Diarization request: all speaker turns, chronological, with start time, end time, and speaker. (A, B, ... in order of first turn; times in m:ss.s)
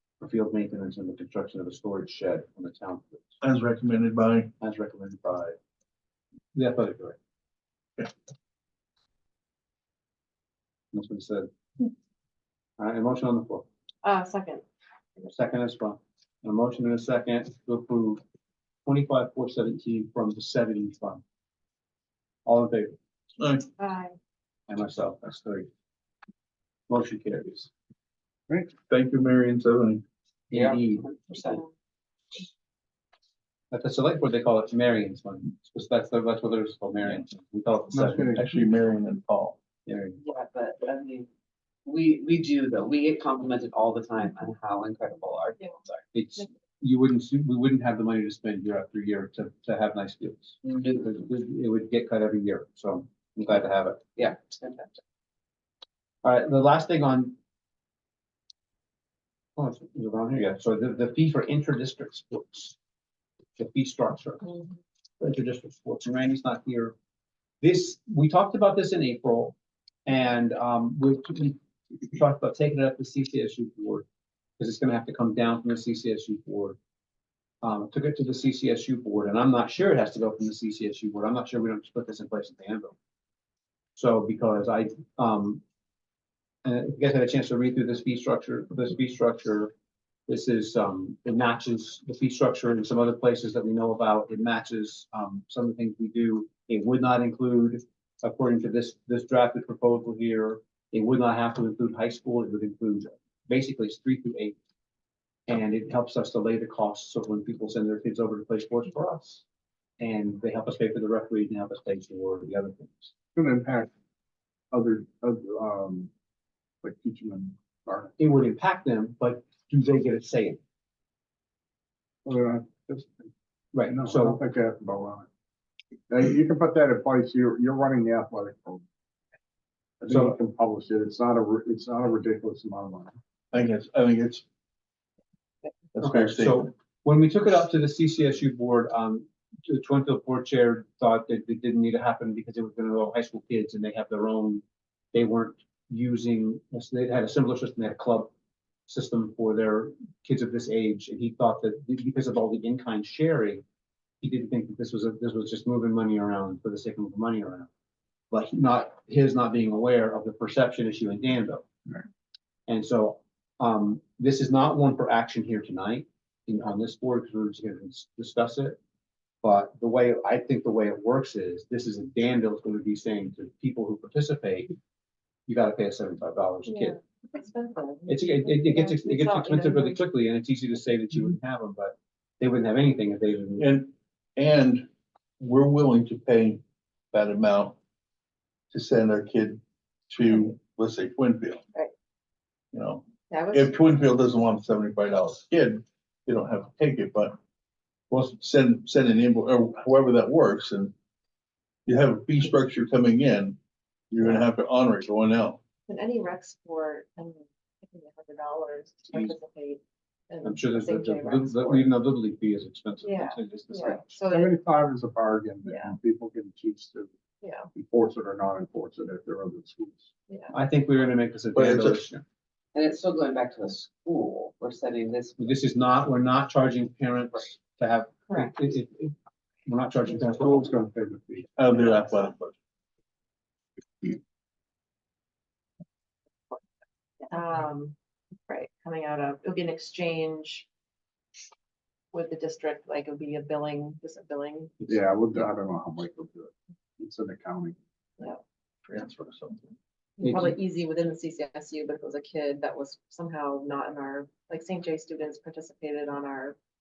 0:00.2-0:03.4 A
0:03.4-0:04.5 B
0:04.6-0:05.6 A
0:06.5-0:07.2 A
0:10.9-0:11.5 A
0:12.8-0:13.7 A
0:14.0-0:14.6 C
0:15.2-0:18.2 A
0:18.8-0:21.2 A
0:22.4-0:23.0 A
0:23.4-0:23.7 B
0:23.8-0:24.2 C
0:24.7-0:25.7 A
0:26.9-0:27.7 A
0:28.5-0:28.7 D
0:28.9-0:30.0 B
0:30.5-0:31.6 A
0:30.5-0:31.6 E
0:33.7-0:38.4 A
0:37.9-0:38.4 D
0:38.3-0:39.6 B
0:39.8-0:40.2 A
0:40.2-0:41.3 E
0:41.8-0:46.0 E
0:46.1-0:54.0 A
0:50.6-0:51.1 E
0:54.2-0:55.0 E
0:56.2-0:57.4 A
0:59.6-1:02.8 A
1:03.6-1:04.6 A
1:05.2-1:06.9 A
1:07.6-1:09.5 A
1:10.0-1:11.6 A
1:12.1-1:14.0 A
1:14.6-1:16.8 A
1:17.6-1:23.0 A
1:24.0-1:25.6 A
1:26.6-1:29.7 A
1:30.3-1:44.6 A
1:45.5-1:49.4 A
1:50.0-1:53.1 A
1:53.3-1:53.9 D
1:54.7-1:56.1 D
1:56.8-1:58.3 D
1:58.2-2:00.6 A
2:02.2-2:03.3 D
2:03.7-2:04.4 A
2:03.8-2:05.3 D
2:06.1-2:08.8 D
2:10.0-2:13.1 D
2:10.1-2:10.3 A
2:13.5-2:14.4 B
2:15.9-2:16.7 B
2:16.0-2:28.3 A
2:28.9-2:33.6 A
2:34.2-2:37.7 A
2:38.3-2:41.6 A
2:42.7-2:48.8 A
2:49.4-2:54.8 A
2:55.5-2:57.0 A
2:56.7-3:00.0 C
2:58.1-3:03.7 A
3:03.6-3:04.9 B
3:05.4-3:07.8 B
3:08.7-3:11.6 B
3:12.7-3:17.4 B
3:13.3-3:13.8 C
3:18.1-3:20.9 B
3:21.8-3:23.6 B
3:24.1-3:25.6 B
3:25.9-3:31.9 C
3:30.4-3:34.2 A
3:33.0-3:34.5 C
3:34.3-3:37.1 D
3:35.6-3:36.0 C
3:37.4-3:37.7 C
3:37.7-3:40.1 D
3:40.3-3:40.5 C
3:40.5-3:42.2 A
3:41.5-3:42.0 B
3:42.7-3:45.5 E
3:45.4-3:50.7 A
3:50.1-3:51.5 D
3:51.6-3:52.5 B
3:57.2-3:57.9 C
3:58.5-4:00.6 C
4:02.1-4:04.7 C
4:04.9-4:07.8 D
4:08.9-4:09.7 B
4:10.2-4:16.6 C
4:10.2-4:10.5 A